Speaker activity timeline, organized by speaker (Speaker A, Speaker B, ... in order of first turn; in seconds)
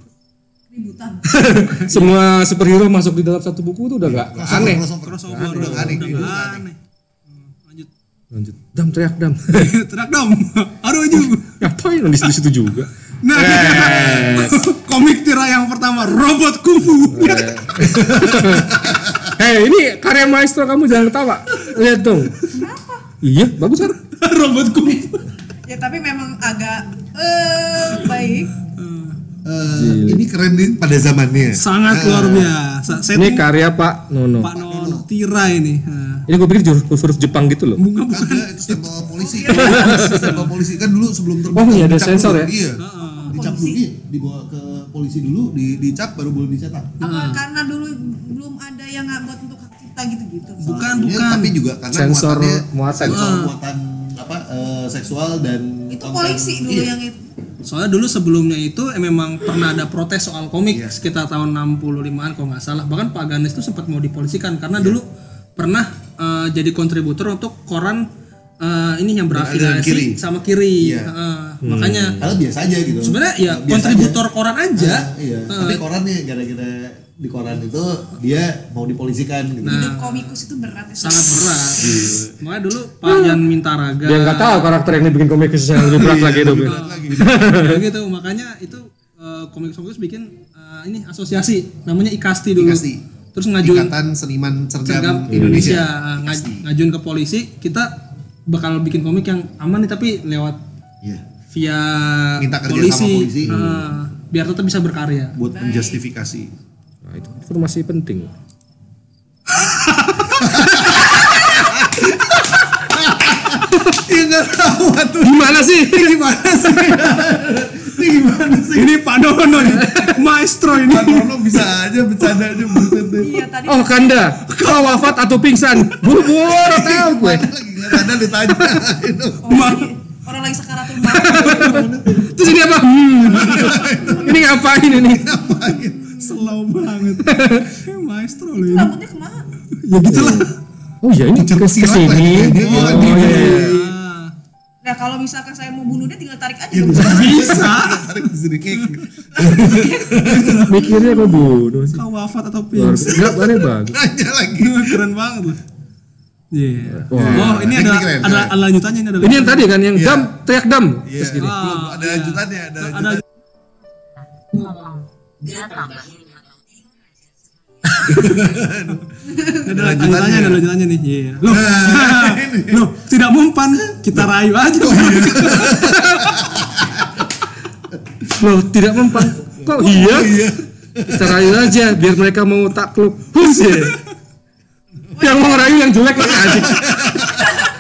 Speaker A: 0.7-1.4, 22.5-23.1, 25.7-28.5, 39.2-40.0, 43.0-43.8, 47.0-50.7, 55.9-57.2, 79.7-81.7, 105.5-106.0, 123.2-124.2, 129.4-131.8, 138.6-139.5, 144.8-147.6, 149.7-150.0, 185.2-185.8, 187.2-187.7
Speaker B: 1.3-6.3, 8.3-9.7, 11.1-14.6, 17.1-18.8, 19.4-22.4, 23.2-24.0, 29.7-30.2, 33.1-34.5, 36.3-37.8, 39.5-40.3, 41.5-42.5, 51.9-53.3, 71.6-72.4, 83.0-83.4, 84.0-87.8, 95.3-95.8, 103.5-103.9, 107.0-108.3, 115.2-116.2, 119.7-120.1, 123.7-127.5, 131.0-135.4, 137.2-137.7, 139.9-140.5, 141.0-143.8, 150.6-152.0, 152.7-154.0, 156.9-157.7, 159.2-161.6, 178.3-180.4, 181.1-184.0, 185.2-187.1
Speaker C: 1.8-2.1, 4.5-6.8, 7.3-7.9, 9.5-11.6, 13.2-17.8, 24.1-25.2, 28.7-29.2, 31.6-33.5, 34.4-36.2, 37.8-38.9, 40.0-40.5, 42.8-43.3, 47.0-47.4, 50.6-51.5, 53.1-53.5, 57.6-65.0, 65.6-68.0, 68.6-72.2, 73.0-75.8, 79.6-80.3, 81.0-84.7, 86.6-93.9, 94.8-100.6, 101.5-105.3, 109.5-110.9, 118.7-121.7, 122.7-123.0, 124.5-125.2, 129.5-129.9, 136.1-138.9, 139.7-140.5, 142.5-144.3, 146.9-149.0, 150.1-151.2, 151.9-153.2, 154.6-155.6, 156.5-159.7, 161.4-163.2, 168.1-168.4, 169.6-176.4
Speaker D: 4.0-6.7, 18.0-19.2, 29.4-32.5, 34.5-35.0, 38.1-46.9, 50.6-56.9, 69.3-70.2, 70.8-71.1, 72.2-74.2, 74.8-79.8, 81.8-82.3, 85.8-87.6, 92.6-93.0, 93.6-96.6, 102.4-103.5, 105.3-106.5, 110.4-118.9, 120.8-123.4, 126.1-129.6, 131.3-132.3, 133.2-136.3, 141.3-143.9, 146.7-150.7, 153.1-155.0, 157.1-158.5, 159.9-160.3, 161.1-163.2, 168.1-170.6, 171.4-172.8, 174.8-177.2, 179.6-181.7, 186.2-187.6
Speaker E: 164.5-167.1